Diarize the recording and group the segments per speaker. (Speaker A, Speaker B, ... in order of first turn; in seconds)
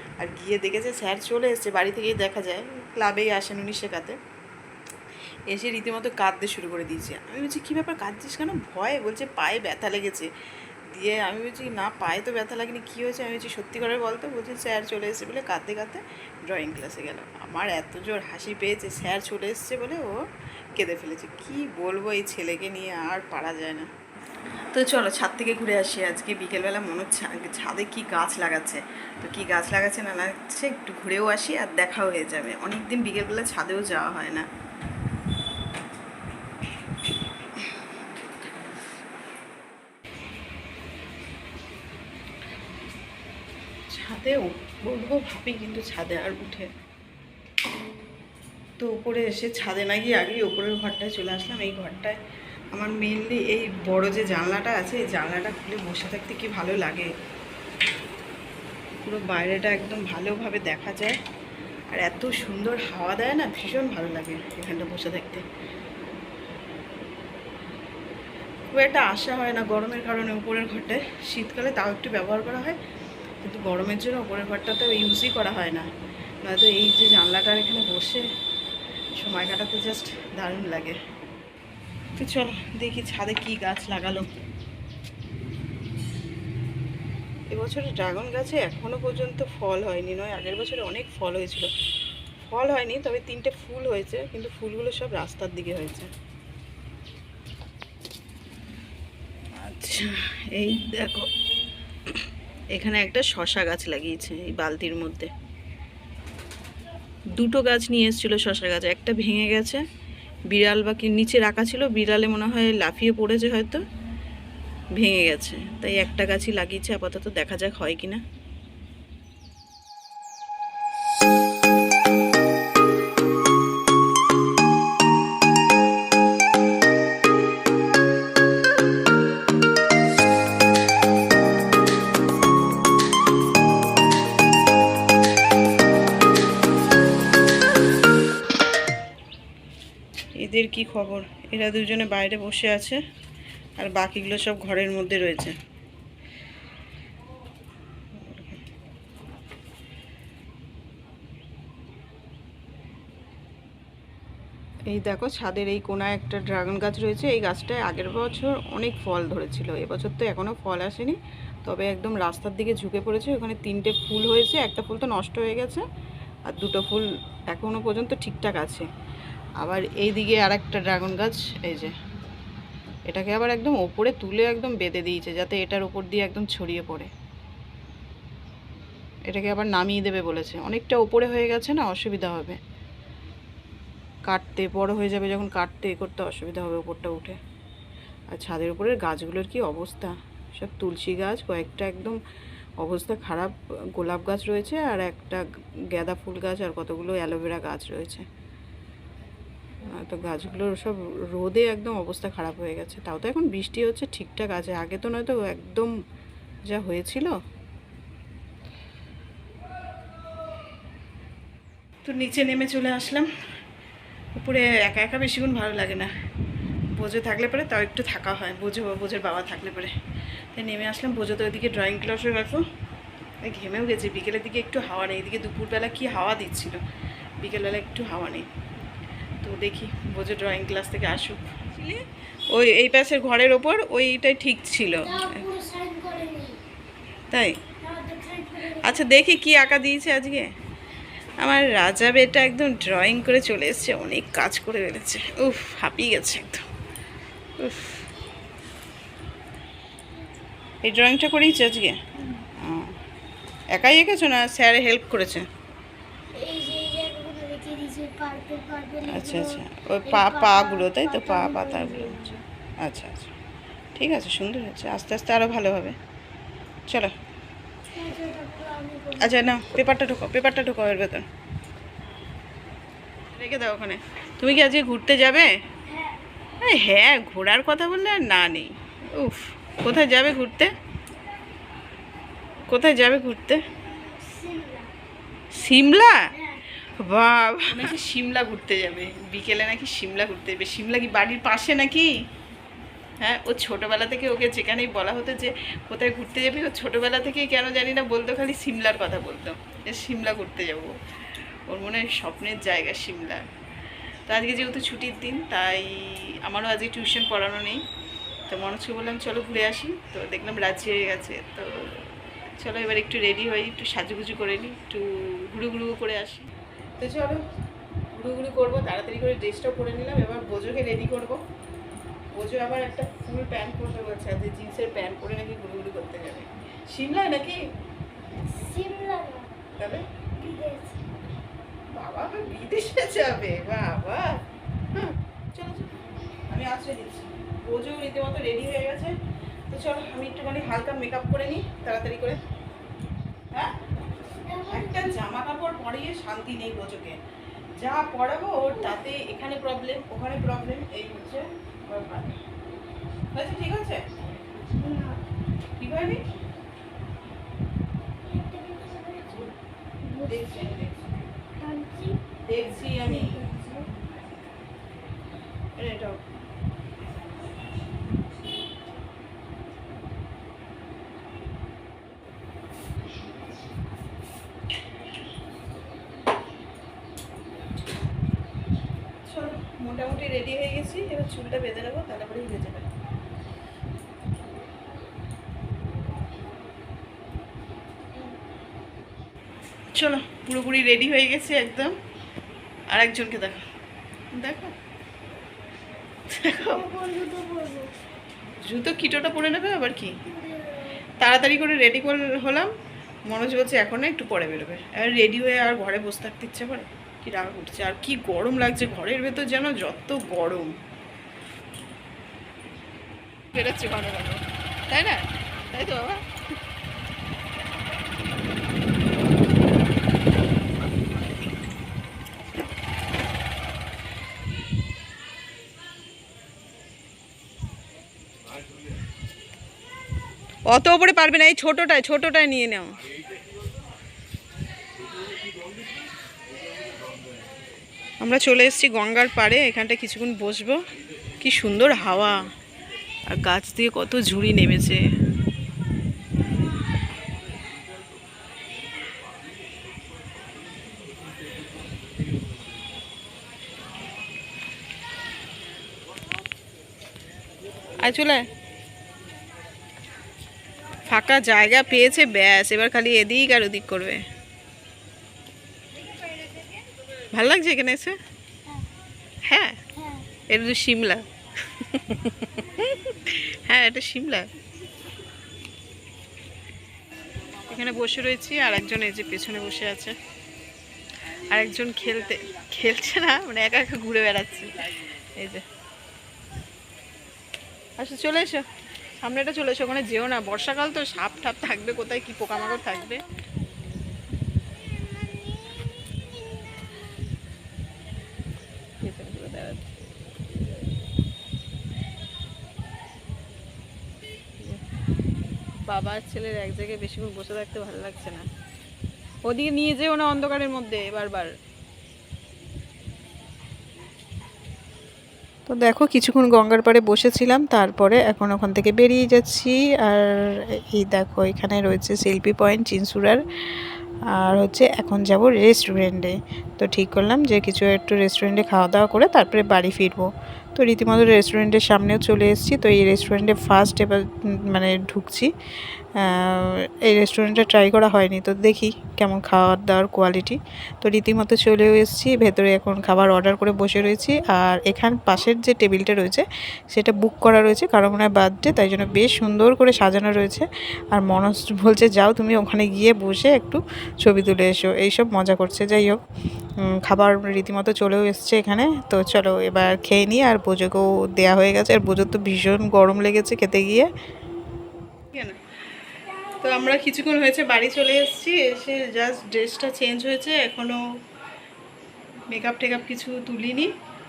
Speaker A: 0.2-4.2, 5.5-10.3, 10.9-20.2, 20.8-23.9, 24.7-34.4, 43.9-46.7, 48.8-52.2, 52.7-57.1, 59.0-61.2, 61.9-65.4, 68.7-72.8, 73.4-75.9, 76.4-78.3, 79.2-81.0, 82.2-84.3, 87.5-91.7, 92.4-96.1, 99.6-101.3, 102.7-105.3, 107.3-109.8, 110.5-113.8, 115.0-118.2, 140.4-143.0, 143.8-145.5, 148.2-148.5, 154.9-165.8, 166.5-168.9, 169.6-171.9, 173.1-177.1, 179.3-182.6, 184.3-187.4, 188.3-192.2, 192.8-198.2, 199.9-205.9, 206.7-207.3, 212.0-213.3, 214.3-216.1, 216.9-219.9, 220.5-222.6, 223.4-226.8, 227.4-228.5, 229.4-235.4, 237.3-237.6, 238.7-240.5, 241.4-246.7, 247.6-248.0, 250.8-252.0, 252.6-252.9, 253.7-255.4, 259.1-263.3, 263.9-265.9, 266.9-267.1, 269.2-271.2, 273.3-275.5, 276.6-280.7, 282.7-283.6, 285.5-286.3, 286.8-292.1, 293.2-300.9, 301.7-303.4, 304.3-307.8, 308.5-317.4, 318.1-321.4, 322.3-327.6, 329.7-330.0, 331.9-334.4, 334.9-335.9, 336.5-339.2, 339.7-342.4, 344.7-347.2, 347.8-352.4, 353.3-354.0, 355.8-356.2, 360.2-361.1, 362.4-363.5, 365.8-366.2, 379.2-382.9, 389.9-391.9, 392.9-393.6, 394.3-394.7, 396.3-396.9, 398.6-400.1, 401.2-402.7, 403.2-410.7, 413.5-416.2, 430.7-433.0, 438.2-440.8, 441.4-442.4, 443.3-445.0, 458.0-458.4, 461.1-464.2, 467.3-468.2, 469.4-469.9, 470.5-474.5, 477.7-480.1, 481.5-485.6, 488.0-488.6, 489.2-493.2, 499.0-499.9, 505.9-508.5, 509.4-511.5, 515.7-523.4, 524.3-535.5, 536.1-556.2, 556.8-564.1, 565.3-565.6, 566.6-571.0, 572.5-573.9
Speaker B: 235.2-236.6, 237.8-239.0, 252.2-252.4, 256.3-262.4, 267.9-269.5, 275.9-276.2, 284.0-284.9, 328.4-329.5, 330.4-331.1, 344.5-345.1, 354.7-355.2, 358.2-360.8, 361.6-362.2, 362.8-363.9, 396.7-397.9, 400.2-401.0, 470.0-470.2